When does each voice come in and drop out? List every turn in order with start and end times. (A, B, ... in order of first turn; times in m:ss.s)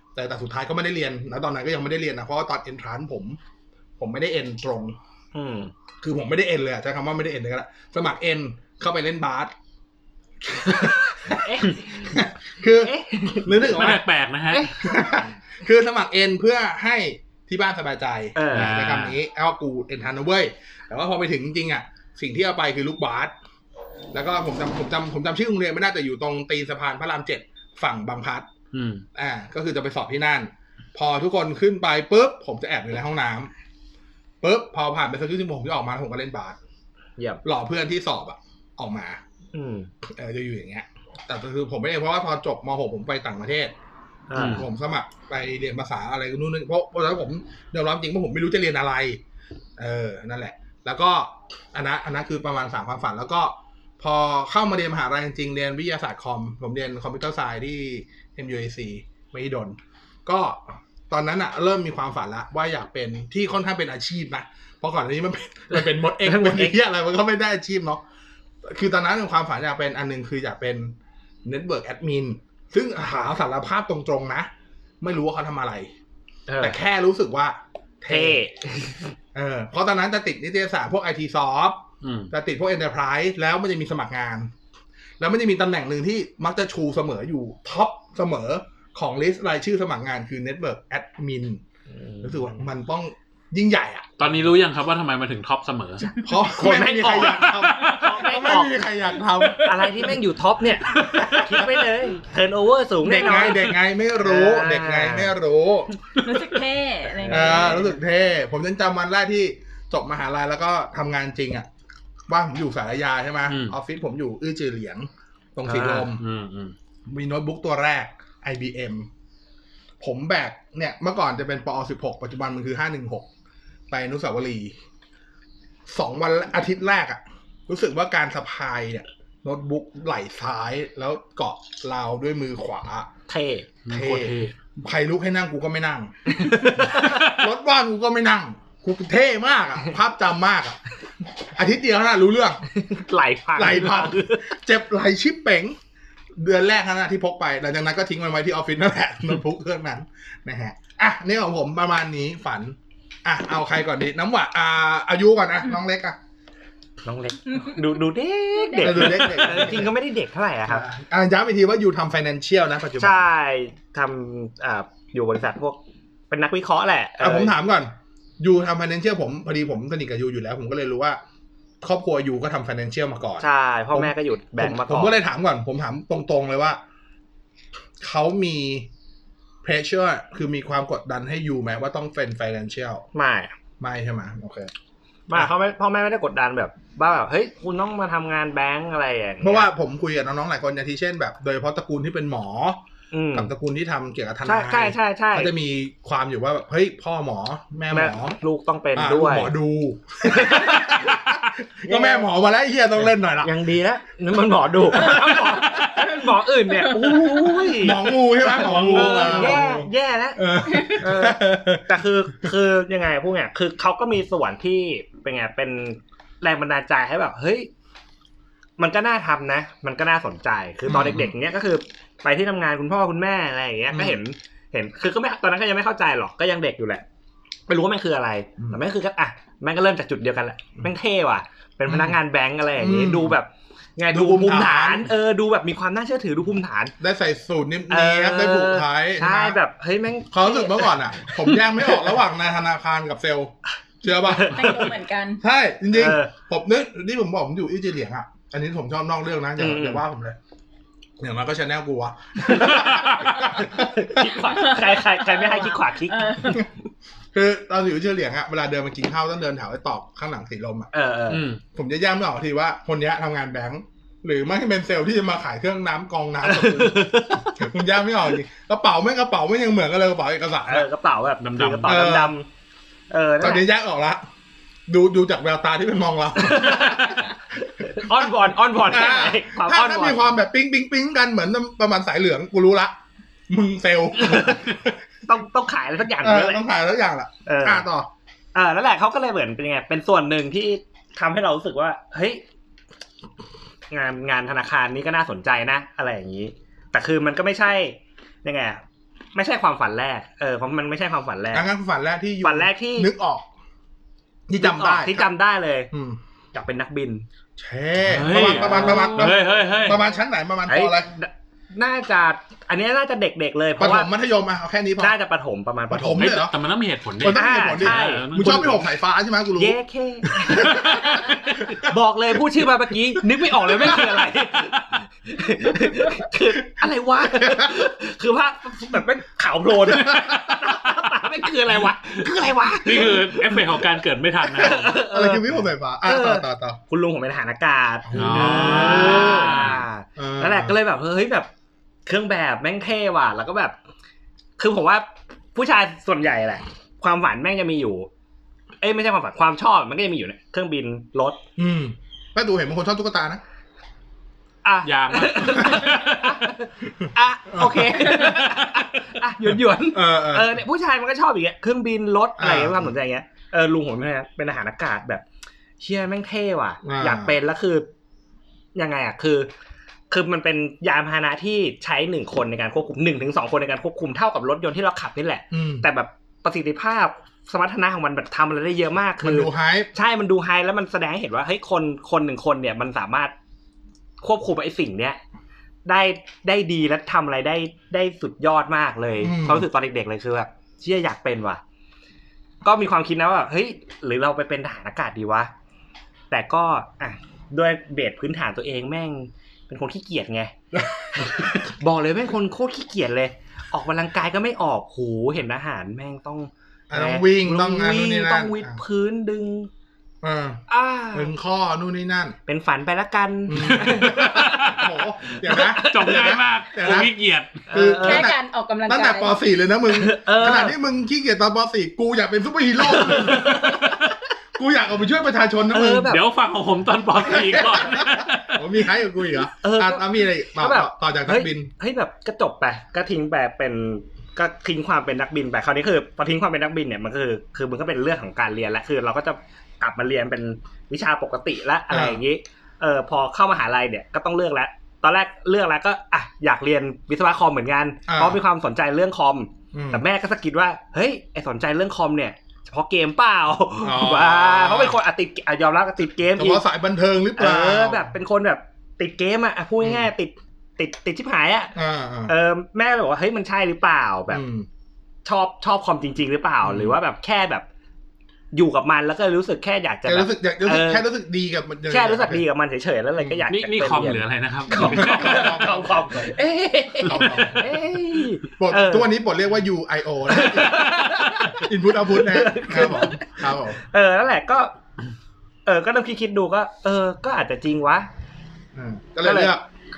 0:00.1-0:03.4 A
0:04.0-0:05.0 A
0:05.3-0:05.7 B
0:06.0-0:09.5 A
0:10.4-0:14.0 A
0:11.2-0:12.2 B
0:12.8-0:13.9 B
0:13.6-0:14.8 C
0:14.5-0:14.8 B
0:14.7-0:23.3 A
0:18.3-0:18.7 B
0:18.5-0:19.2 C
0:24.1-0:28.5 A
0:28.7-0:29.0 C
0:29.1-0:33.5 A
0:34.4-0:36.6 A
0:37.4-0:39.2 A
0:39.5-0:39.9 B
0:40.0-0:43.7 A
0:44.3-0:44.6 B
0:44.3-0:44.6 C
0:44.3-0:49.2 A
0:49.8-1:08.0 A
1:05.7-1:06.8 B
1:08.6-1:14.5 A
1:15.0-1:15.9 A
1:16.5-1:16.8 B
1:16.6-1:18.4 A
1:18.1-1:19.1 B
1:19.3-1:24.5 A
1:22.0-1:22.3 C
1:25.2-1:31.6 A
1:31.9-1:32.6 B
1:32.2-1:34.2 A
1:34.2-1:36.1 C
1:36.2-1:39.8 A
1:36.4-1:38.7 B
1:37.2-1:38.1 C
1:39.6-1:45.3 B
1:41.1-1:41.7 A
1:43.0-1:45.9 A
1:46.1-1:47.9 D
1:47.2-1:47.9 B
1:47.3-1:51.7 A
1:52.3-1:56.2 A
1:53.5-1:53.8 C
1:55.6-1:56.0 B
1:55.8-1:56.7 C
1:57.1-1:59.1 A
2:00.0-2:03.3 A
2:03.9-2:04.7 A
2:05.9-2:13.1 A
2:13.3-2:13.7 B
2:13.8-2:14.5 C
2:13.9-2:20.8 A
2:16.3-2:17.2 B
2:16.9-2:17.4 C
2:21.5-2:22.6 A
2:22.7-2:24.5 B
2:23.5-2:25.8 A
2:26.3-2:36.2 A
2:37.0-2:40.8 B
2:37.5-2:37.9 D
2:38.6-2:39.5 D
2:38.8-2:39.9 A
2:40.7-2:43.2 A
2:43.0-2:45.8 B
2:46.3-2:47.5 B
2:47.2-2:51.2 A
2:51.8-2:56.8 A
2:53.4-2:55.1 B
2:58.0-2:58.9 A
2:59.6-3:03.0 A
3:03.1-3:03.5 B
3:03.8-3:04.7 A
3:05.3-3:09.7 B
3:09.4-3:12.8 A
3:13.1-3:13.5 B
3:13.3-3:18.4 A
3:14.4-3:15.5 B
3:17.9-3:19.5 B
3:18.9-3:23.5 A
3:20.2-3:22.3 B
3:23.4-3:37.7 B
3:24.9-3:25.6 A
3:25.6-3:26.1 C
3:26.8-3:27.4 D
3:27.8-3:31.9 A
3:28.7-3:29.5 C
3:38.8-3:47.0 B
3:40.9-3:41.3 A
3:43.9-3:44.2 A
3:47.7-3:56.9 B
3:51.9-3:52.2 A
3:52.8-3:53.4 A
3:54.1-3:55.1 A
3:57.0-3:59.6 A
3:57.9-4:02.1 B
4:00.3-4:04.9 A
4:04.2-4:04.9 B
4:04.4-4:05.4 D
4:05.4-4:10.4 A
4:05.9-4:06.3 B
4:09.6-4:10.0 B
4:11.2-4:14.3 A
4:12.5-4:16.6 B
4:12.8-4:13.3 C
4:14.4-4:16.6 D
4:17.3-4:20.9 A
4:20.9-4:21.4 B
4:21.3-4:21.6 C
4:21.7-4:30.9 A
4:26.4-4:27.7 B
4:30.7-4:32.5 B
4:31.4-4:32.0 C
4:31.8-4:32.3 A
4:33.1-4:33.6 B
4:33.4-4:34.2 A
4:34.9-4:37.3 A
4:36.4-4:40.2 B
4:37.9-4:43.0 A
4:43.5-4:45.0 A
4:44.2-4:44.6 B
4:45.2-4:46.6 B
4:46.2-4:48.1 A
4:47.4-4:47.8 B
4:48.5-4:52.4 B
4:53.9-4:58.8 B
4:59.3-5:01.7 B
5:01.5-5:03.5 A
5:02.4-5:03.1 B
5:04.5-5:05.3 A
5:04.6-5:05.9 B
5:05.9-5:06.2 A
5:06.5-5:07.2 B
5:07.6-5:11.1 A
5:08.0-5:10.0 C
5:08.2-5:09.3 B
5:10.7-5:14.1 B
5:13.8-5:15.2 A
5:15.0-5:16.4 B
5:15.9-5:16.5 A
5:16.2-5:18.8 C
5:17.2-5:21.9 A
5:17.2-5:18.6 B
5:19.6-5:33.8 B
5:20.6-5:21.5 C
5:23.4-5:23.9 A
5:23.8-5:24.8 C
5:27.2-5:27.8 A
5:29.8-5:30.6 A
5:32.8-5:35.0 C
5:34.4-5:35.5 B
5:34.6-5:36.8 A
5:36.0-5:41.5 B
5:38.1-5:40.8 A
5:38.1-5:39.8 C
5:42.0-5:43.8 B
5:44.6-5:48.1 B
5:48.8-5:51.4 B
5:51.6-5:53.4 A
5:54.6-6:05.2 B
5:54.8-5:56.4 C
5:57.0-5:58.6 A
5:59.4-6:00.6 A
6:02.4-6:02.9 A
6:05.8-6:07.9 B
6:06.8-6:07.3 A
6:08.7-6:09.5 B
6:10.1-6:23.3 B
6:15.5-6:15.8 A
6:19.2-6:19.9 A
6:24.2-6:25.2 B
6:25.8-6:31.6 B
6:29.2-6:29.7 A
6:32.6-6:35.5 B
6:36.3-6:40.5 B
6:40.7-6:41.7 A
6:41.2-6:49.7 B
6:46.9-6:48.8 A
6:50.2-6:52.4 A
6:50.7-6:51.3 B
6:52.5-6:54.7 B
6:53.5-6:57.1 A
6:53.8-6:54.9 C
6:55.3-6:56.4 B
6:55.8-6:57.6 C
6:57.7-6:58.3 B
6:57.7-7:06.1 A
6:58.0-6:59.4 D
6:59.9-7:00.8 B
7:02.8-7:04.1 B
7:05.7-7:06.2 B
7:06.0-7:08.6 C
7:07.2-7:11.7 A
7:09.6-7:36.6 B
7:21.9-7:22.2 A
7:28.1-7:28.4 A
7:29.7-7:30.0 A
7:33.8-7:35.0 A
7:36.4-7:38.1 A
7:37.4-7:41.7 B
7:39.8-7:40.1 A
7:41.7-7:42.3 A
7:42.3-7:44.4 B
7:44.3-7:44.7 A
7:45.2-7:47.6 B
7:46.6-7:47.0 A
7:48.5-7:51.0 B
7:50.0-7:52.4 A
7:51.9-7:59.1 B
7:53.2-7:53.4 A
7:53.5-7:55.6 C
7:54.7-7:56.3 A
7:57.0-7:57.7 A
7:58.6-8:03.8 A
8:00.3-8:04.7 B
8:00.8-8:01.1 C
8:05.6-8:08.1 B
8:08.7-8:09.6 A
8:09.2-8:09.6 B